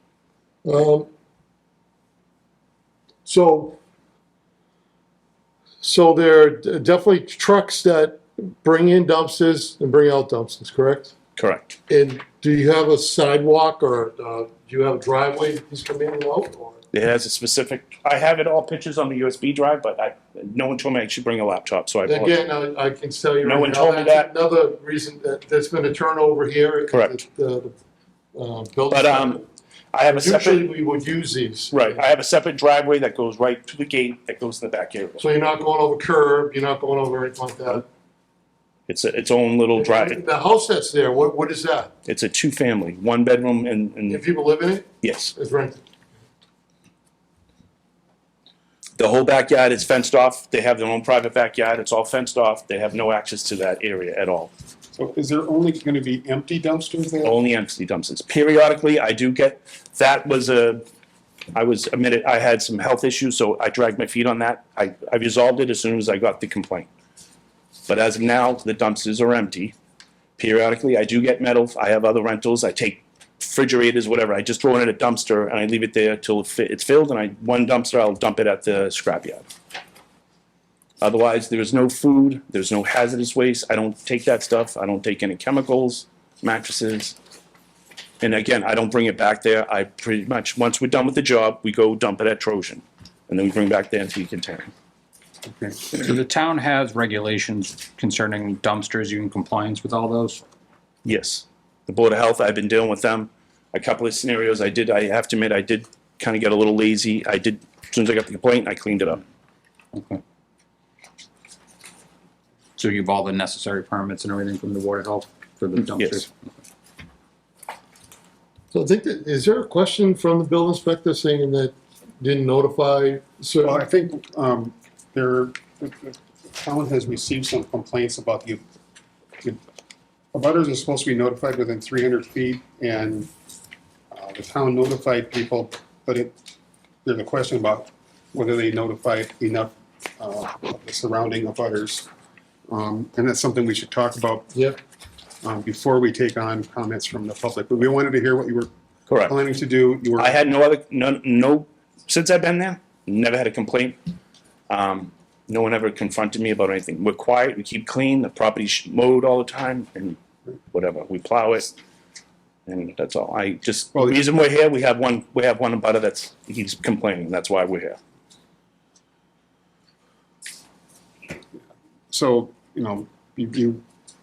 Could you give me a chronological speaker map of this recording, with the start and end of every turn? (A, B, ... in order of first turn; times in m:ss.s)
0:00.6-0:01.1 A
0:03.2-0:03.8 A
0:05.8-0:11.1 A
0:11.4-0:11.8 B
0:11.9-0:16.8 A
0:16.9-0:22.4 B
0:22.0-0:27.7 A
0:23.4-0:24.3 B
0:26.9-0:27.2 B
0:28.3-0:29.4 A
0:28.9-0:29.4 B
0:29.9-0:30.7 B
0:30.1-0:32.0 A
0:31.7-0:35.2 B
0:35.2-0:37.8 A
0:38.9-0:40.2 B
0:39.7-0:41.9 A
0:42.0-0:44.2 B
0:44.1-0:45.8 A
0:45.0-0:45.3 B
0:49.0-0:54.5 B
0:54.9-0:57.4 C
0:57.2-1:00.8 B
1:01.5-1:06.9 B
1:07.9-1:09.7 B
1:10.4-1:19.4 B
1:21.0-1:27.2 B
1:28.2-1:34.7 B
1:35.4-1:35.8 C
1:35.9-1:40.4 D
1:41.0-1:49.2 B
1:49.9-1:50.2 D
1:52.8-1:56.3 D
1:56.0-1:56.2 B
1:58.7-2:03.8 A
2:03.6-2:08.6 C
2:10.3-2:13.3 C
2:14.1-2:16.3 C
2:17.0-2:22.1 C
2:22.7-2:24.5 C
2:25.4-2:28.7 C
2:29.1-2:29.3 B
2:29.2-2:30.4 C
2:30.2-2:34.0 B
2:34.7-2:40.2 B
2:40.7-2:41.7 B
2:42.7-2:48.0 B
2:43.9-2:44.2 C
2:52.1-2:53.8 C